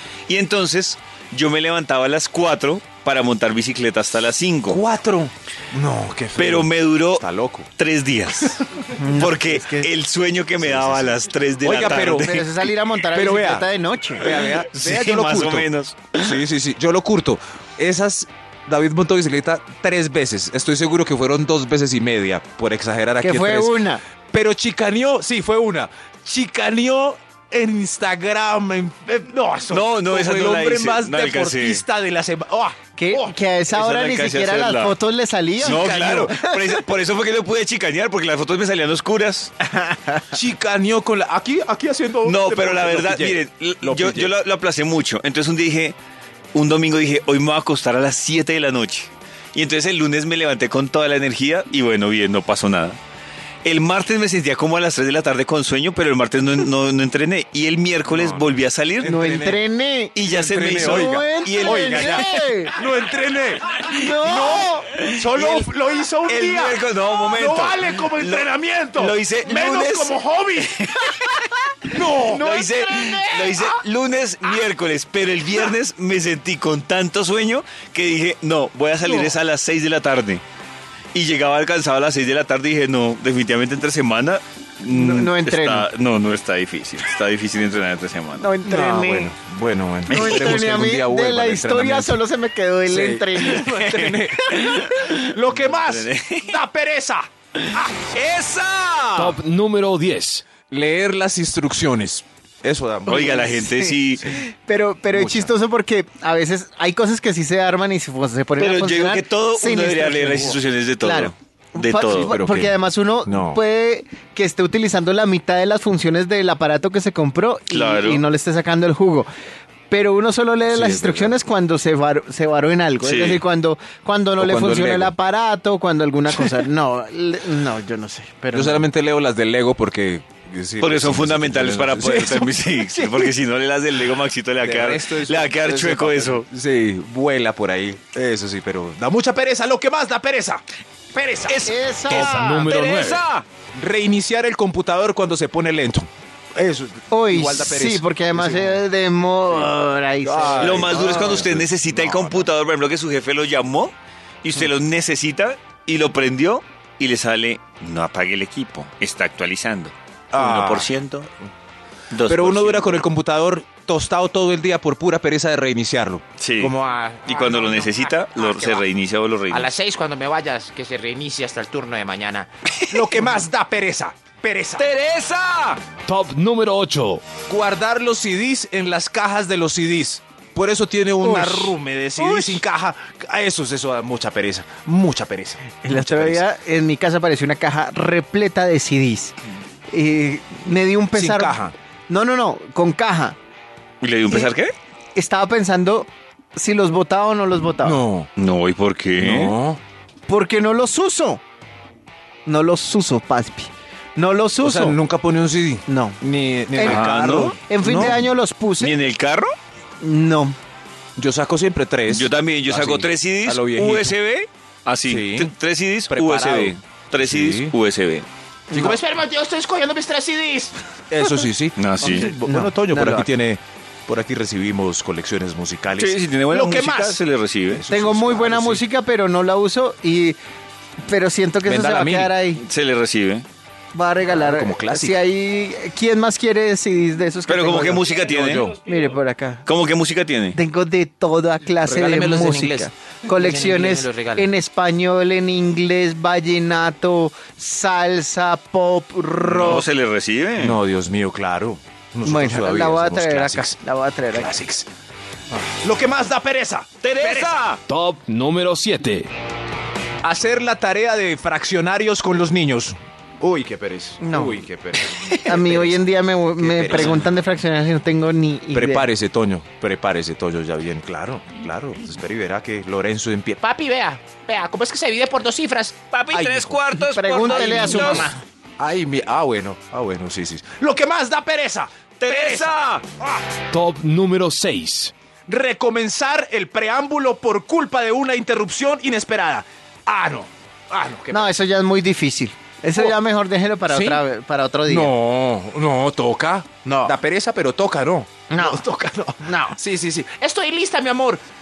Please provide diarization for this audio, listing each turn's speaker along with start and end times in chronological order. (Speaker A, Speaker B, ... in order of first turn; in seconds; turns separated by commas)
Speaker A: 0.3-4.8, Speaker B: 4.7-7.7, Speaker A: 6.3-12.4, Speaker C: 8.9-9.9, Speaker B: 10.6-12.4, Speaker C: 11.9-14.3, Speaker B: 13.1-33.4, Speaker A: 14.2-16.4, Speaker C: 23.2-24.0, Speaker A: 29.7-31.8, Speaker C: 33.0-36.7, Speaker A: 33.7-34.9, Speaker B: 35.6-36.4, Speaker A: 35.6-39.5, Speaker C: 39.7-40.3, Speaker B: 40.3-44.3, Speaker A: 42.2-46.0, Speaker A: 46.5-53.0, Speaker A: 53.6-59.1, Speaker B: 58.1-59.6, Speaker C: 59.0-60.1, Speaker A: 60.1-62.8, Speaker B: 60.2-70.8, Speaker C: 60.8-62.8, Speaker A: 63.8-65.7, Speaker C: 63.9-64.9, Speaker A: 66.3-80.4, Speaker B: 71.9-72.7, Speaker C: 72.3-72.7, Speaker B: 79.1-79.3, Speaker A: 81.1-88.5, Speaker C: 84.9-85.9, Speaker C: 88.4-89.3, Speaker B: 88.6-92.2, Speaker A: 90.1-90.7, Speaker C: 90.1-93.7, Speaker B: 92.9-98.1, Speaker A: 93.4-96.6, Speaker A: 97.6-99.4, Speaker D: 99.2-100.5, Speaker B: 100.7-103.7, Speaker A: 103.1-104.3, Speaker C: 103.1-119.3, Speaker B: 105.1-105.5, Speaker A: 108.6-112.3, Speaker B: 112.1-113.6, Speaker A: 117.7-118.2, Speaker C: 119.9-128.8, Speaker B: 120.7-121.3, Speaker A: 123.0-123.4, Speaker B: 124.4-125.1, Speaker B: 128.5-133.3, Speaker A: 130.8-136.5, Speaker B: 134.6-141.7, Speaker A: 141.5-143.4, Speaker C: 141.7-142.7, Speaker D: 142.1-143.2, Speaker B: 143.7-148.8, Speaker C: 147.1-151.4, Speaker B: 150.2-152.5, Speaker A: 150.6-161.3, Speaker B: 160.3-160.9, Speaker A: 162.1-163.0, Speaker B: 162.3-167.2, Speaker A: 166.4-169.7, Speaker E: 166.8-168.8, Speaker E: 169.5-172.5, Speaker B: 172.9-174.9, Speaker A: 174.8-175.8, Speaker D: 175.9-177.2, Speaker B: 177.5-186.4, Speaker C: 181.2-182.6, Speaker C: 185.8-189.3, Speaker C: 189.9-193.4, Speaker B: 191.1-191.7, Speaker A: 194.0-194.7, Speaker C: 195.1-198.0, Speaker B: 197.8-198.3, Speaker A: 198.4-199.6, Speaker B: 199.2-199.8, Speaker C: 200.3-201.4, Speaker C: 202.4-205.0, Speaker B: 204.6-208.2, Speaker C: 205.9-206.2, Speaker C: 206.7-207.1, Speaker A: 206.8-207.6, Speaker C: 207.7-208.9, Speaker A: 208.8-209.5, Speaker C: 210.0-210.6, Speaker B: 211.2-214.1, Speaker A: 212.1-218.3, Speaker B: 215.0-215.5, Speaker B: 216.1-217.7, Speaker E: 218.7-220.7, Speaker B: 218.7-219.0, Speaker B: 221.1-228.8, Speaker A: 221.8-222.3, Speaker C: 222.0-223.3, Speaker A: 225.9-227.8, Speaker C: 227.9-230.4, Speaker C: 231.1-232.6, Speaker B: 231.6-232.3, Speaker A: 232.5-233.4, Speaker C: 233.9-239.7, Speaker B: 234.2-235.2, Speaker A: 237.5-238.8, Speaker B: 238.3-238.8, Speaker A: 239.7-240.6, Speaker C: 240.5-249.9, Speaker B: 241.8-242.9, Speaker E: 243.3-244.5, Speaker A: 249.5-250.8, Speaker B: 250.6-253.8, Speaker C: 252.2-254.6, Speaker B: 254.3-254.9, Speaker B: 255.5-257.6, Speaker A: 257.0-257.8, Speaker D: 257.9-259.3, Speaker B: 260.2-266.0, Speaker C: 264.2-264.6, Speaker C: 265.4-269.1, Speaker B: 266.6-267.3, Speaker B: 268.7-273.6, Speaker E: 273.6-275.9, Speaker A: 276.1-278.3, Speaker B: 276.3-276.8, Speaker C: 277.0-278.4, Speaker E: 277.4-278.4, Speaker B: 278.8-283.4, Speaker A: 282.2-283.0, Speaker D: 283.7-285.1, Speaker B: 285.5-291.6, Speaker C: 291.3-295.1, Speaker B: 293.9-294.2, Speaker B: 294.9-300.4, Speaker C: 298.5-298.8, Speaker E: 300.4-301.4